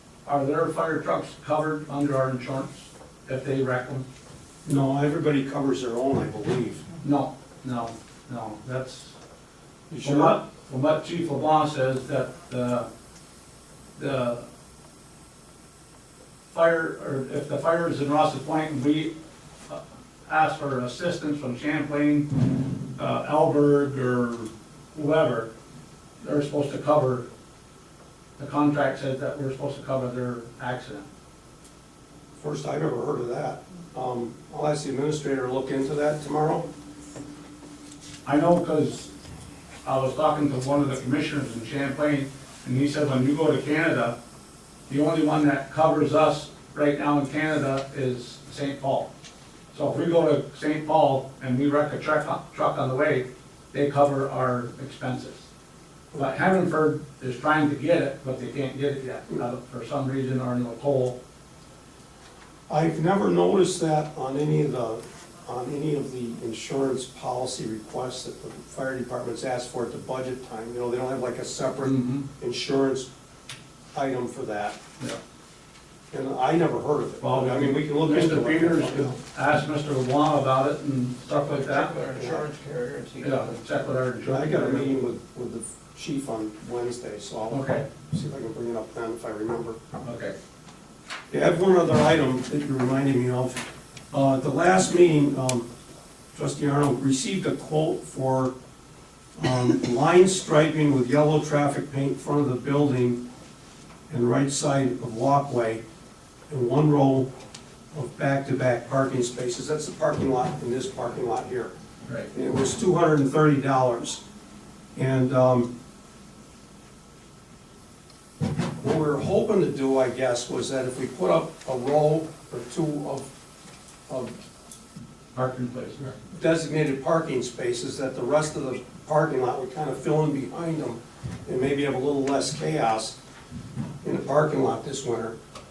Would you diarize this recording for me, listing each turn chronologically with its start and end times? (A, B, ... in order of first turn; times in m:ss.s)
0:00.2-0:04.0 A
0:04.6-0:06.8 B
0:07.0-0:09.2 A
0:09.9-0:10.4 B
0:10.0-0:12.9 A
0:14.0-0:14.4 A
0:16.5-0:19.1 A
0:19.7-0:25.5 A
0:26.2-0:27.3 A
0:28.4-0:31.1 A
0:32.4-0:36.7 B
0:38.2-0:39.1 A
0:39.8-0:44.2 A
0:44.9-0:49.1 A
0:49.7-0:55.5 A
0:56.1-1:01.2 A
1:02.7-1:13.1 B
1:11.8-1:12.2 A
1:13.9-1:14.8 B
1:16.1-1:19.2 B
1:17.2-1:22.0 A
1:21.4-1:23.6 C
1:22.1-1:22.4 B
1:23.2-1:25.0 A
1:24.2-1:29.8 B
1:27.5-1:27.8 A
1:30.0-1:30.3 A
1:31.3-1:35.7 B
1:36.3-1:38.5 B
1:39.4-1:43.2 B
1:44.1-1:45.8 B
1:46.5-1:47.3 B
1:47.9-1:51.7 B
1:52.3-1:54.2 B
1:55.0-1:55.7 B
1:58.8-2:03.3 B
2:04.1-2:04.4 B
2:05.3-2:06.1 A
2:06.3-2:13.2 B
2:14.0-2:15.4 B